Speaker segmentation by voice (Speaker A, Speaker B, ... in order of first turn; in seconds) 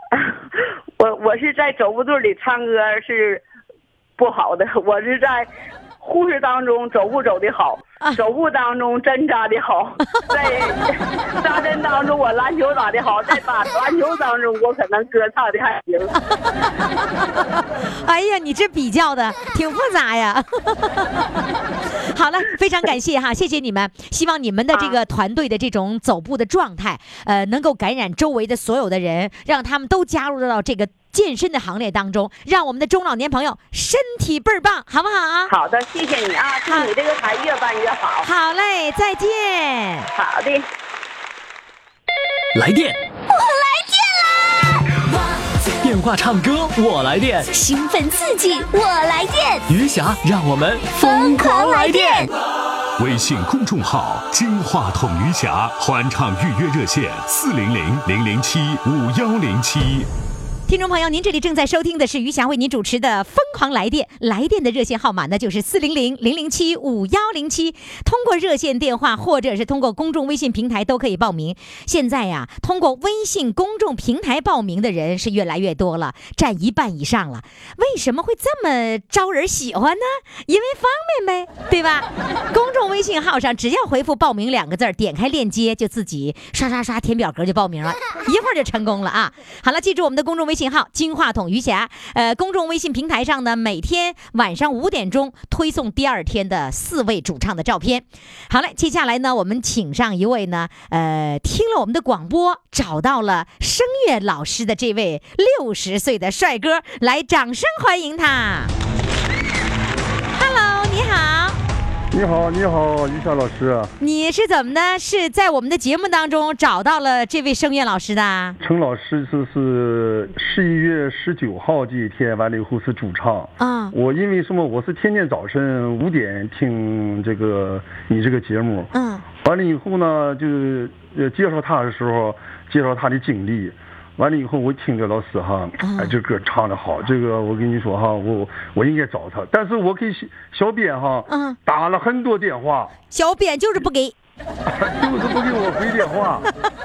Speaker A: 0.1-3.4, 4.2-5.5, 6.0-16.1, 35.5-38.3, 40.1-40.7
Speaker B: 16.4-21.4, 22.0-35.5, 38.2-40.1, 60.7-108.7, 110.3-111.6, 114.0-118.6, 123.6-123.9, 128.9-129.2, 135.8-136.1, 141.3-141.6, 143.1-144.2
Speaker C: 42.5-43.0, 45.8-47.5, 49.7-52.3
Speaker D: 43.3-44.4, 47.5-49.6, 50.9-52.3
Speaker E: 53.0-60.1
Speaker F: 112.1-113.9, 118.6-128.9, 129.4-142.9, 144.7-146.5